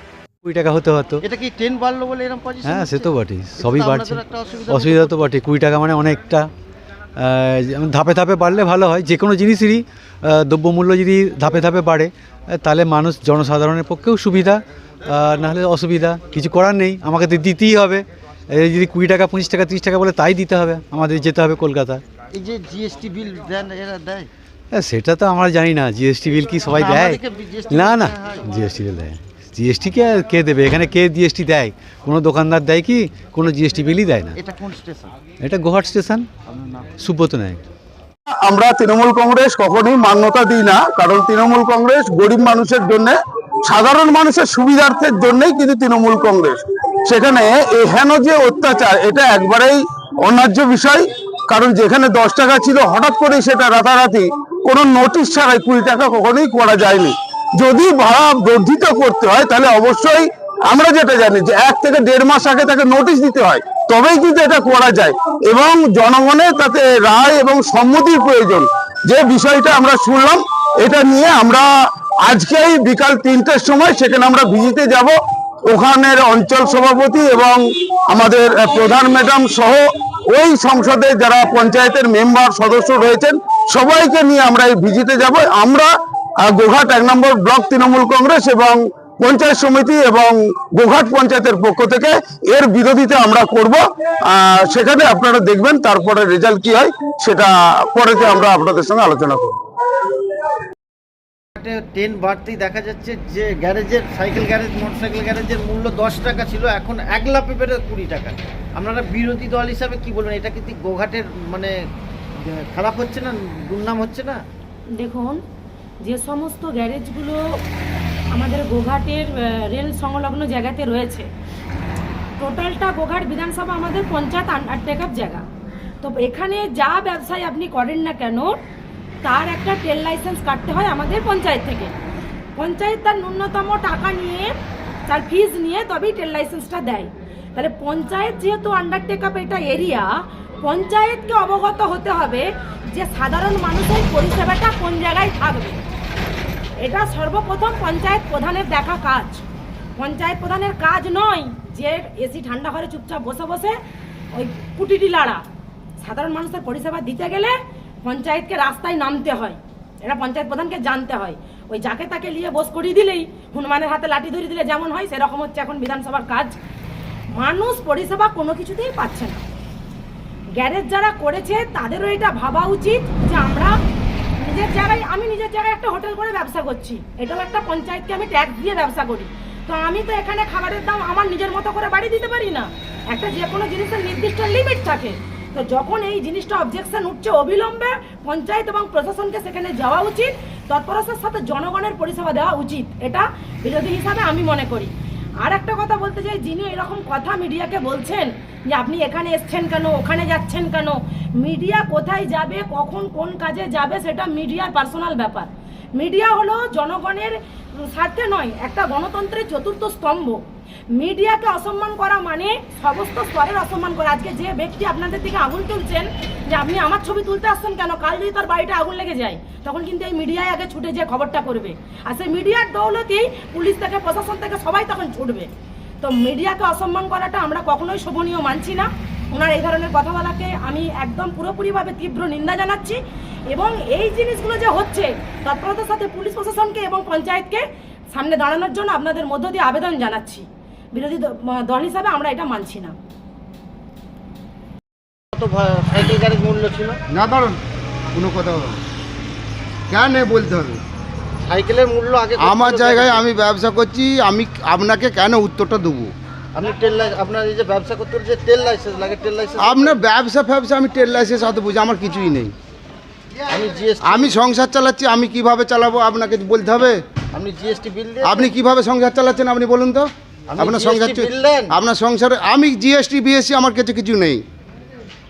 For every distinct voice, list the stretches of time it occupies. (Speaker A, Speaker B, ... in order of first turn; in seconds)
Speaker A: 0.4-1.2, 2.6-6.5, 7.2-22.0, 24.7-34.4, 35.4-36.3, 37.0-37.7
Speaker B: 1.2-5.4, 22.3-24.3, 26.7-28.5, 34.4-35.1, 101.6-111.8, 112.4-114.4, 245.3-247.0, 251.5-253.2, 256.5-260.0, 263.5-264.4, 267.3-268.5, 270.5-271.7
Speaker C: 38.4-71.7, 72.2-75.2, 75.7-85.9, 86.4-99.6
Speaker D: 115.0-115.4, 116.0-117.4, 118.3-121.3, 122.4-125.4, 126.0-128.6, 129.2-131.9, 132.6-134.5, 135.1-140.1, 140.6-145.8, 146.8-149.4, 150.0-153.8, 154.3-155.4, 156.0-166.6, 167.3-169.4, 170.6-173.8, 174.4-194.9, 195.4-210.4, 210.9-225.5, 226.0-233.0, 233.5-242.9
Speaker E: 247.1-247.6, 248.1-248.8, 249.9-250.8, 252.4-256.1, 259.6-262.5, 264.0-267.0, 268.2-274.4